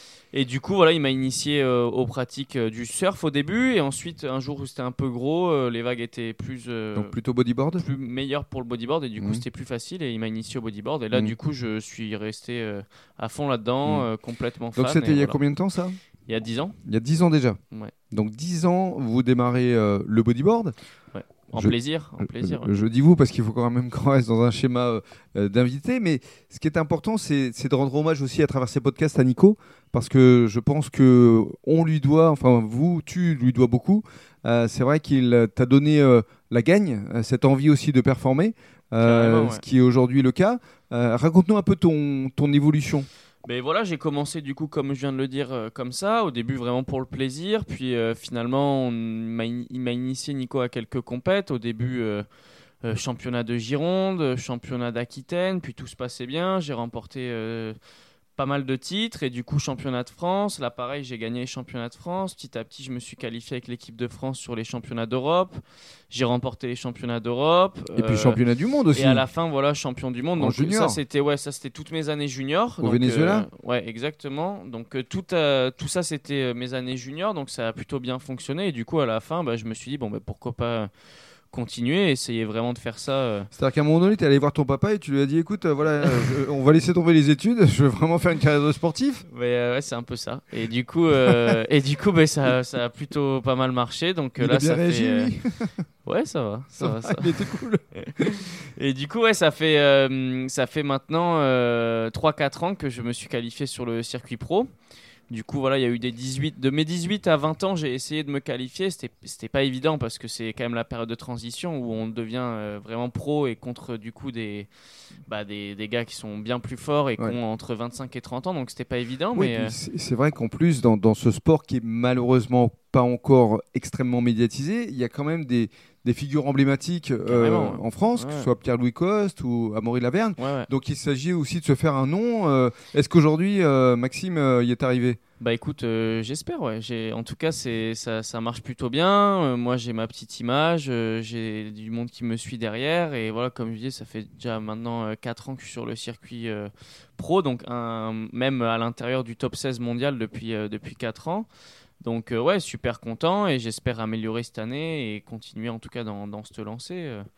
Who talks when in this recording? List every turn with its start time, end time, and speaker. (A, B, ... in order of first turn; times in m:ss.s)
0:00.3-0:07.1 A
0:07.0-0:07.8 B
0:07.8-0:15.4 A
0:14.7-0:16.0 B
0:16.3-0:16.8 A
0:16.8-0:17.6 B
0:18.1-0:20.7 B
0:21.1-0:22.7 A
0:21.5-0:43.1 B
0:39.0-0:39.6 A
0:43.4-0:52.2 A
0:52.8-0:57.8 A
0:58.4-1:08.4 A
1:08.0-1:09.2 B
1:08.9-1:20.9 A
1:10.4-1:11.0 B
1:12.8-1:13.5 B
1:21.5-1:23.5 A
1:23.5-1:29.2 B
1:26.0-1:26.4 A
1:29.3-1:35.4 A
1:34.4-1:35.7 B
1:36.0-1:37.4 A
1:36.8-1:38.3 B
1:38.0-1:44.7 A
1:45.3-1:54.7 A
1:55.3-1:59.7 A
1:59.3-2:15.2 B
2:07.2-2:08.5 A
2:10.4-2:10.7 A
2:15.4-2:31.5 A
2:32.0-2:37.2 A